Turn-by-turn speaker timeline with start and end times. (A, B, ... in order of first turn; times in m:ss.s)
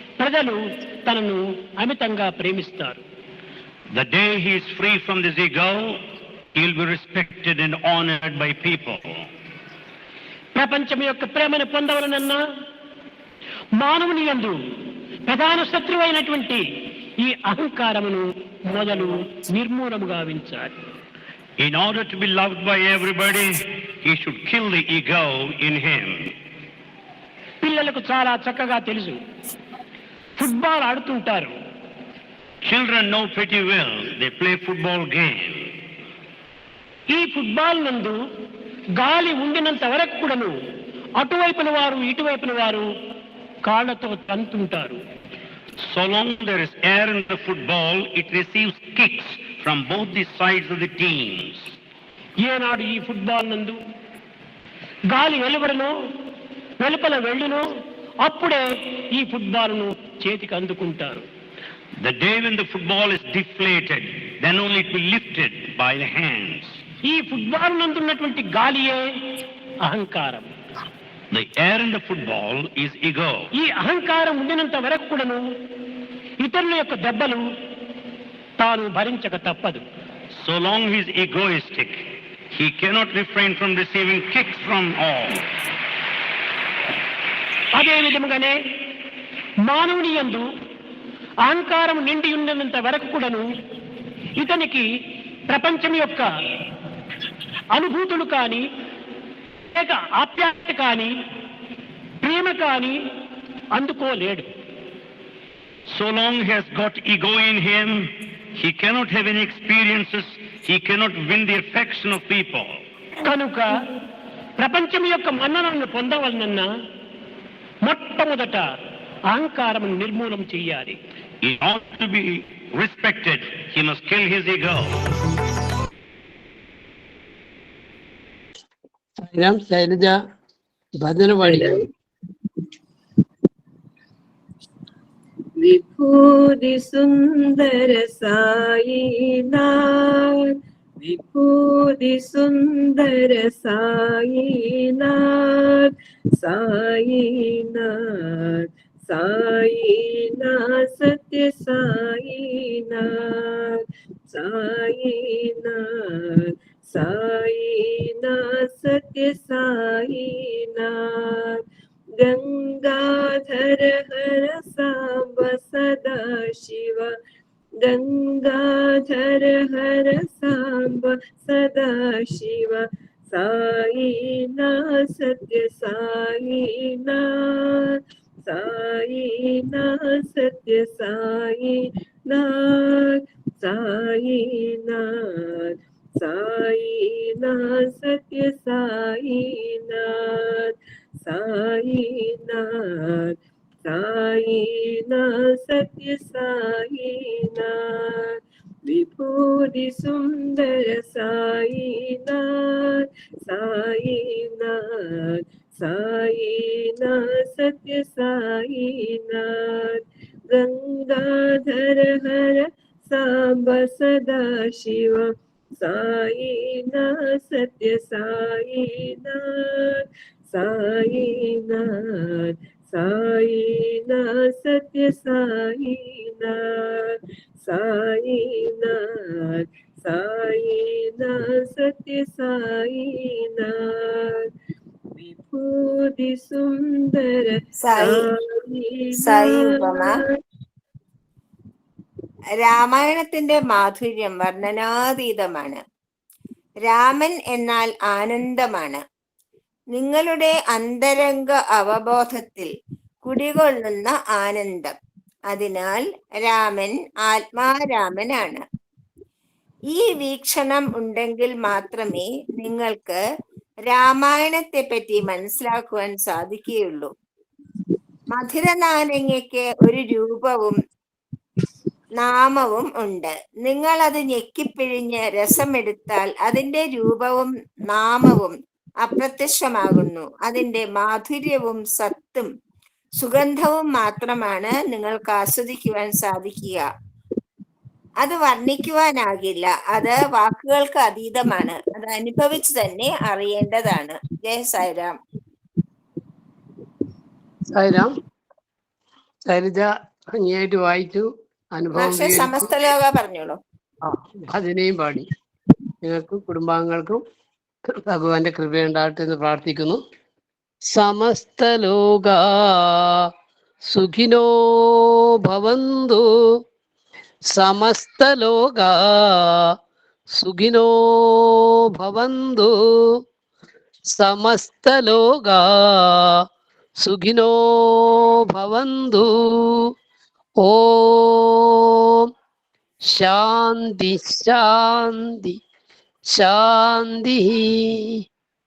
0:00.2-0:03.0 A
0:03.9-0:06.0 B
0:06.6-0:09.3 B
0:10.6-0:12.4 A
0:13.8-0:14.6 A
0:15.3-0:16.6 A
0:17.2-0:20.7 A
0:21.6-0:26.3 B
0:27.6-0:29.2 A
0:30.4-0:31.6 A
0:32.6-0:35.8 B
0:37.1-0:38.2 A
0:39.0-0:40.5 A
0:41.2-0:42.9 A
0:43.7-0:45.0 A
0:45.8-0:51.7 B
0:52.4-0:53.8 A
0:55.1-0:55.9 A
0:56.8-0:57.6 A
0:58.2-0:58.6 A
0:59.2-1:01.2 A
1:02.0-1:06.8 B
1:07.1-1:09.0 A
1:09.9-1:10.5 A
1:11.3-1:13.5 B
1:13.6-1:15.4 A
1:16.4-1:17.4 A
1:18.6-1:19.8 A
1:20.4-1:25.4 B
1:27.8-1:28.6 A
1:29.6-1:30.5 A
1:31.4-1:33.5 A
1:34.4-1:34.9 A
1:35.5-1:36.3 A
1:37.7-1:38.6 A
1:39.7-1:41.2 A
1:42.2-1:43.0 A
1:43.7-1:44.4 A
1:45.9-1:52.8 B
1:53.2-1:53.8 A
1:54.6-1:56.7 A
1:57.8-1:58.7 A
1:59.3-2:01.0 A
2:01.4-2:05.1 B
2:09.2-2:10.1 C
2:11.0-2:11.8 C
2:11.4-2:11.8 D
2:15.6-2:41.6 D
2:42.2-2:47.1 D
2:47.8-3:35.3 D
3:35.8-3:54.4 D
3:55.2-4:00.3 D
3:57.8-3:58.2 E
3:59.2-4:00.1 E
4:02.6-4:05.8 E
4:06.9-4:09.0 E
4:09.9-4:12.7 E
4:13.2-4:14.9 E
4:15.5-4:18.6 E
4:19.9-4:23.2 E
4:23.9-4:27.1 E
4:28.3-4:30.8 E
4:32.2-4:42.5 E
4:43.2-4:46.8 E
4:48.2-4:55.2 E
4:57.7-4:58.1 C
4:59.5-5:02.7 C
5:02.0-5:03.6 E
5:04.1-5:05.3 C
5:06.0-5:07.2 C
5:08.1-5:10.0 C
5:10.9-5:13.3 C
5:13.9-5:16.2 C
5:17.5-5:19.7 C
5:20.4-5:23.2 C
5:24.2-5:26.4 C
5:27.0-5:29.9 C
5:30.6-5:32.3 C
5:33.1-5:35.6 C
5:36.3-5:38.2 C